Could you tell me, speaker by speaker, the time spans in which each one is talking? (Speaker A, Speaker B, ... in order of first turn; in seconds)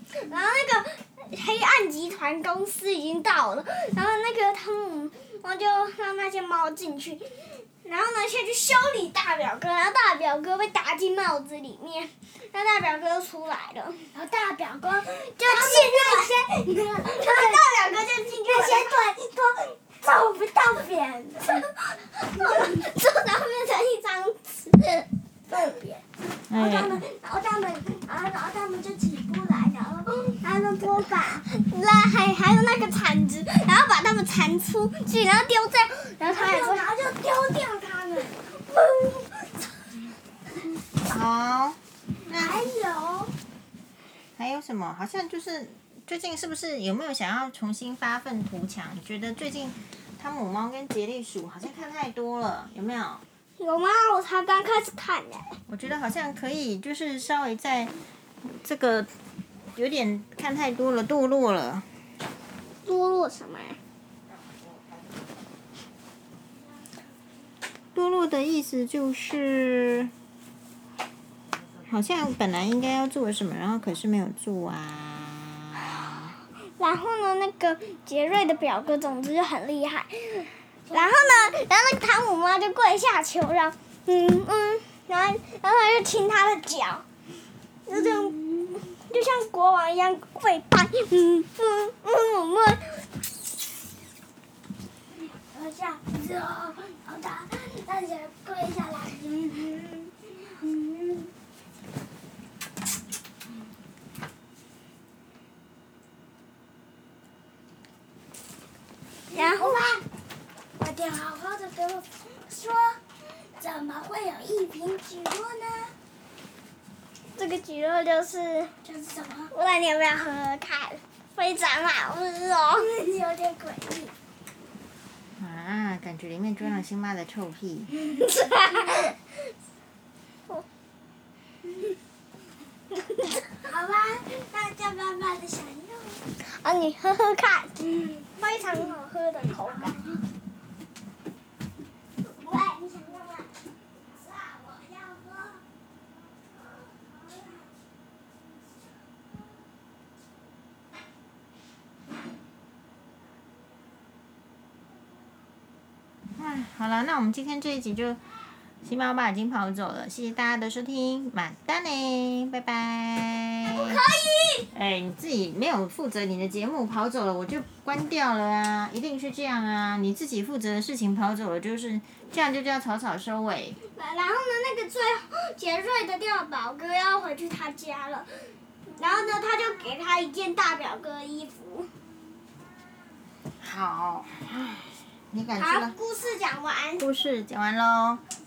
Speaker A: 0.2-14.1, 15.4-16.4, 17.2-18.9, 22.2-25.9, 30.4-36.9, 53.6-55.6, 62.8-63.8, 76.8-87.0, 87.9-93.0, 109.3-109.8, 117.3-118.7, 119.5-122.9, 128.4-129.0, 136.4-140.0, 142.4-143.4, 163.7-164.7, 173.9-178.3, 178.9-181.9, 185.6-187.0
Speaker B: 14.1-21.7, 22.4-22.8, 26.5-31.4, 36.2-39.6, 42.3-43.3, 80.9-81.5, 87.9-88.8, 95.4-101.3, 109.3-110.0, 110.8-115.9, 118.8-119.5, 122.8-124.1, 128.2-128.9, 133.6-136.2, 142.7-143.3, 144.2-145.6
Speaker C: 26.5-27.0, 41.0-42.7, 44.4-53.2, 55.7-59.1, 59.7-61.8, 67.9-70.1, 71.9-76.2, 125.4-127.9, 156.4-158.2, 158.8-164.0, 164.7-173.8, 183.6-185.9, 187.0-188.2